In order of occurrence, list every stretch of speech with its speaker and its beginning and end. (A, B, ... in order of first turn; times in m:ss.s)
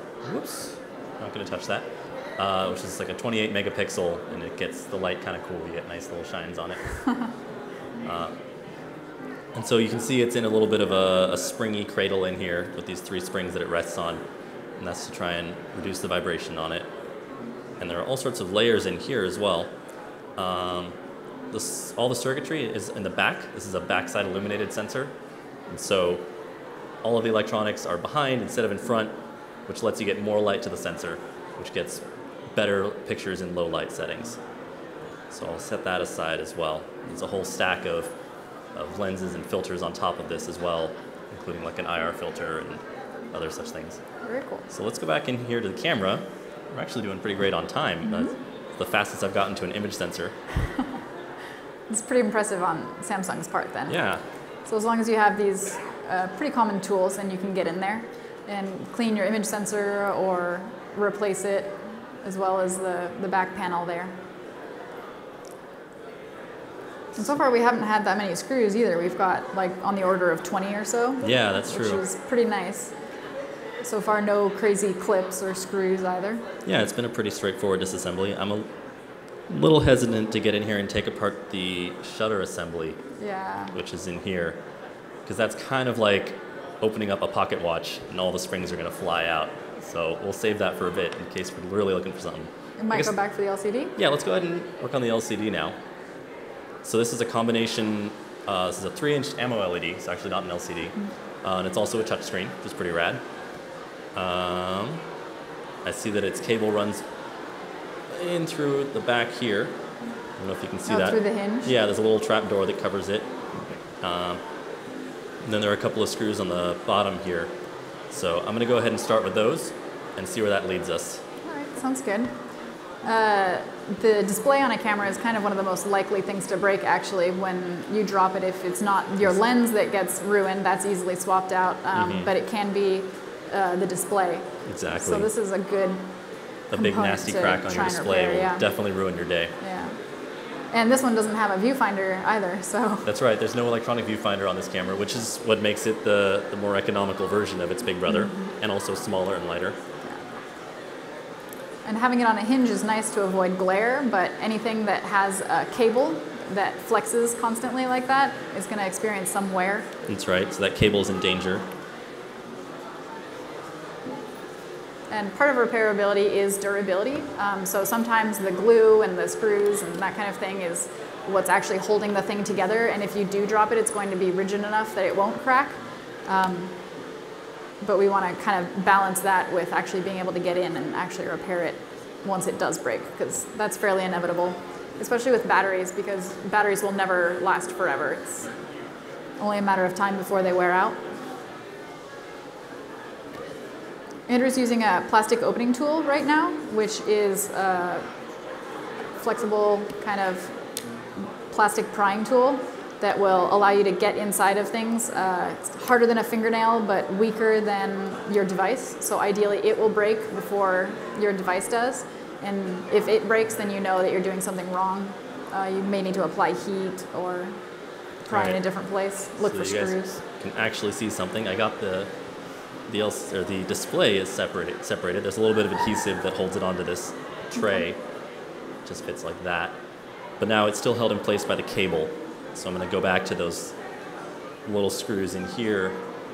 0:00.2-0:06.8 A
0:08.0-0:08.3 A
0:09.5-0:14.2 A
0:14.8-0:16.9 A
0:17.8-0:19.7 A
0:20.4-0:20.9 A
0:21.5-0:25.1 A
0:25.7-0:26.2 A
0:27.0-0:29.1 A
0:29.7-0:34.4 A
0:35.3-0:38.1 A
0:38.7-0:42.8 A
0:43.3-0:44.0 A
0:44.2-0:44.6 B
0:44.7-0:50.3 A
0:48.0-0:48.4 B
0:51.9-0:54.0 B
0:53.9-0:54.2 A
0:54.6-1:04.1 B
1:07.2-1:12.9 B
1:11.2-1:12.0 A
1:13.8-1:16.4 B
1:16.6-1:18.7 A
1:19.5-1:23.0 A
1:23.2-1:23.8 B
1:23.7-1:24.6 A
1:25.2-1:33.1 A
1:32.8-1:33.9 B
1:34.0-1:35.8 A
1:36.8-1:43.2 A
1:44.1-1:45.0 A
1:45.8-1:47.0 A
1:48.1-1:49.8 A
1:50.4-1:53.3 A
1:50.8-1:51.7 B
1:54.0-1:54.4 A
1:55.4-1:57.5 A
1:58.1-2:01.2 A
2:01.4-2:02.3 B
2:03.0-2:16.1 B
2:11.9-2:12.3 A
2:14.6-2:15.3 A
2:16.7-2:19.5 A
2:16.7-2:18.6 B
2:19.6-2:20.0 B
2:20.7-2:23.1 B
2:23.0-2:29.8 A
2:28.1-2:28.5 B
2:31.8-2:39.9 B
2:40.1-2:41.6 A
2:45.1-2:56.7 B
2:57.8-3:08.5 B
3:09.4-3:11.0 B
3:14.3-3:18.0 B
3:19.2-3:20.5 B
3:21.2-3:37.5 B
3:38.3-3:40.2 B
3:38.3-3:38.6 A
3:39.4-3:42.1 A
3:42.9-3:48.0 A
3:47.5-3:47.8 B
3:48.8-3:49.7 A
3:50.4-3:53.7 A
3:54.6-3:56.0 A